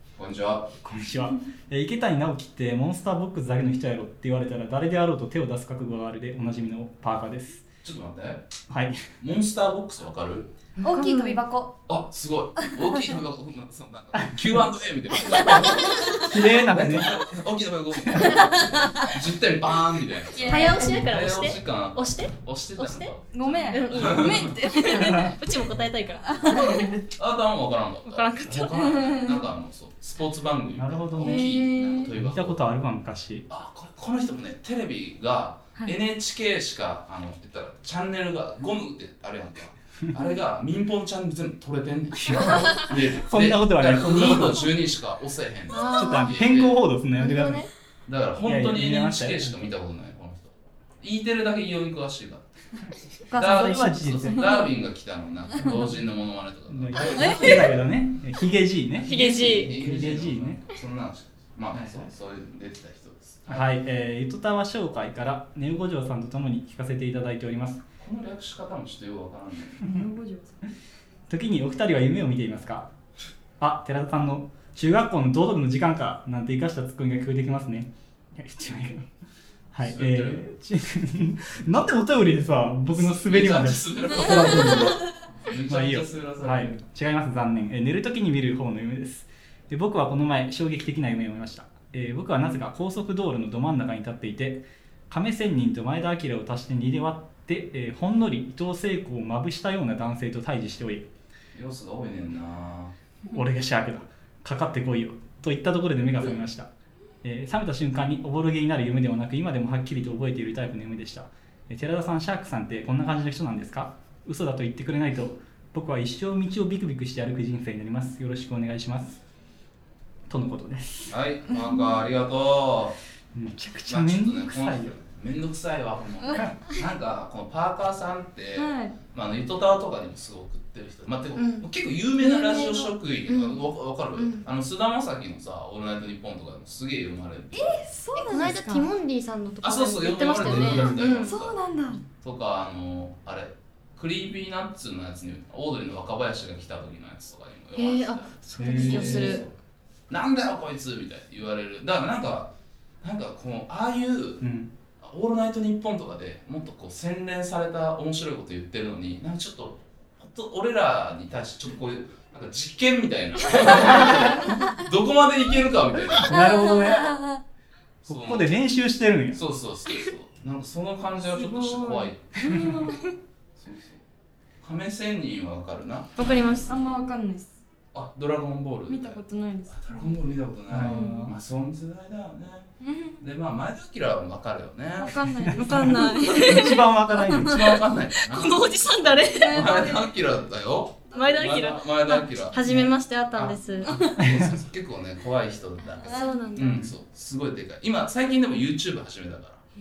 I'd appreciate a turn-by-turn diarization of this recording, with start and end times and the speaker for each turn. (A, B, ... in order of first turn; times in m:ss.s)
0:00.2-0:00.8 A
0:00.8-0:07.7 B
0:07.8-0:08.5 A
0:08.7-0:09.0 B
0:09.2-0:10.5 A
0:10.8-0:11.4 C
0:10.8-0:11.8 D
0:11.9-0:24.6 A
0:14.2-0:14.6 B
0:16.2-0:17.2 B
0:18.0-0:18.4 B
0:18.4-0:19.2 D
0:20.3-0:21.1 D
0:20.4-0:23.1 C
0:23.3-0:25.4 D
0:23.7-0:27.0 C
0:24.9-0:25.4 B
0:26.3-0:27.0 D
0:27.1-0:32.6 A
0:28.1-0:29.2 C
0:28.9-0:29.4 D
0:30.8-0:31.5 B
0:31.2-0:32.1 C
0:32.1-0:33.5 B
0:33.5-0:46.8 A
0:42.2-0:44.7 B
0:45.7-0:46.4 C
0:45.9-0:47.7 B
0:47.2-0:47.7 C
0:48.1-0:52.5 A
0:48.4-0:49.6 B
0:53.3-0:54.7 D
0:53.3-0:57.7 A
0:53.4-0:54.6 B
0:55.6-0:56.0 B
0:56.7-1:00.6 B
0:57.1-0:57.7 D
0:59.0-1:03.7 A
0:59.0-0:59.8 C
1:01.7-1:02.1 B
1:03.5-1:07.8 B
1:08.0-1:09.9 A
1:09.8-1:10.6 D
1:11.3-1:12.9 B
1:13.6-1:19.1 B
1:19.7-1:25.1 B
1:19.8-1:20.5 A
1:22.9-1:26.8 A
1:25.7-1:41.1 B
1:41.6-1:43.0 A
1:43.3-1:46.7 B
1:47.2-1:59.2 B
2:00.3-2:01.2 B
2:01.1-2:03.0 A
2:03.3-2:05.0 B
2:03.9-2:17.8 A
2:08.6-2:09.0 D
2:11.4-2:11.6 C
2:12.2-2:12.9 D
2:13.3-2:13.6 C
2:14.2-2:14.4 C
2:17.5-2:18.9 D
2:18.2-2:21.3 C
2:19.6-2:29.5 A
2:20.6-2:22.0 D
2:27.8-2:29.4 C
2:28.6-2:29.4 B
2:28.8-2:29.2 D
2:30.1-2:34.5 A
2:34.4-2:34.7 B
2:35.0-2:46.4 A
2:43.8-2:44.3 B
2:46.2-2:47.1 B
2:46.3-2:47.4 D
2:48.0-2:48.5 A
2:48.1-2:49.4 B
2:49.3-2:52.8 A
2:51.3-2:53.1 C
2:53.6-2:54.0 A
2:54.6-2:56.3 A
2:56.2-2:56.8 C
2:56.7-2:57.5 D
2:57.9-3:05.4 A
2:58.9-3:00.2 D
3:00.7-3:01.4 B
3:00.8-3:01.3 D
3:02.8-3:03.2 D
3:05.0-3:06.8 D
3:05.5-3:07.8 B
3:05.6-3:09.7 C
3:07.2-3:19.6 A
3:09.3-3:10.1 D
3:11.1-3:11.4 D
3:11.1-3:14.0 C
3:13.8-3:14.2 D
3:14.2-3:14.5 B
3:16.0-3:16.5 D
3:16.0-3:16.8 C